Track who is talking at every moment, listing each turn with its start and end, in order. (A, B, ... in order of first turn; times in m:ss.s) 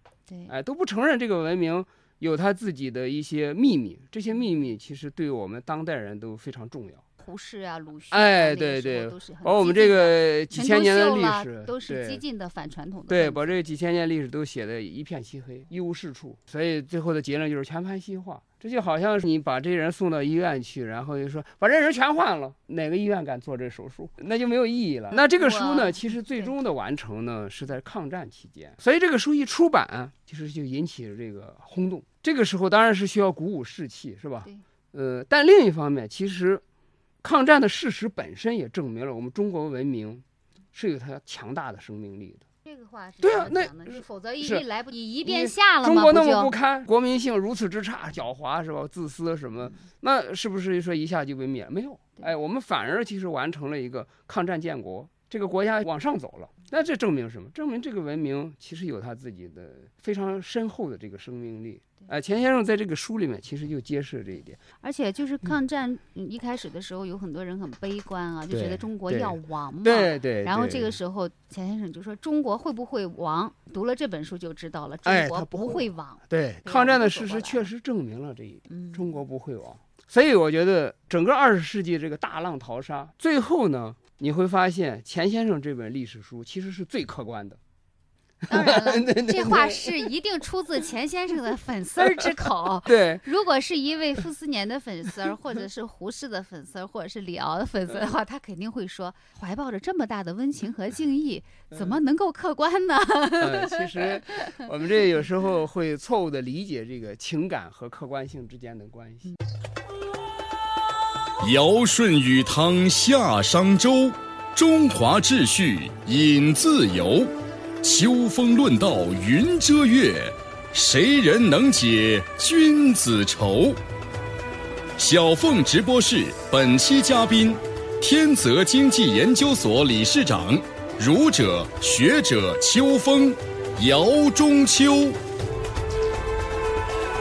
0:00.5-0:07.0 A
0:07.2-0:13.4 B
0:08.1-0:12.2 A
0:13.1-0:36.6 A
0:25.1-0:26.5 B
0:37.2-0:40.2 A
0:40.7-0:42.4 A
0:42.6-0:46.5 B
0:43.2-0:44.6 A
0:45.2-1:04.6 A
1:04.8-1:17.7 B
1:08.5-1:10.9 A
1:15.0-1:27.6 A
1:18.7-1:19.1 B
1:28.5-1:30.1 A
1:28.5-1:44.1 B
1:32.0-1:33.2 A
1:41.7-1:42.0 A
1:43.4-1:49.3 A
1:51.4-2:03.8 C
2:05.0-2:15.2 C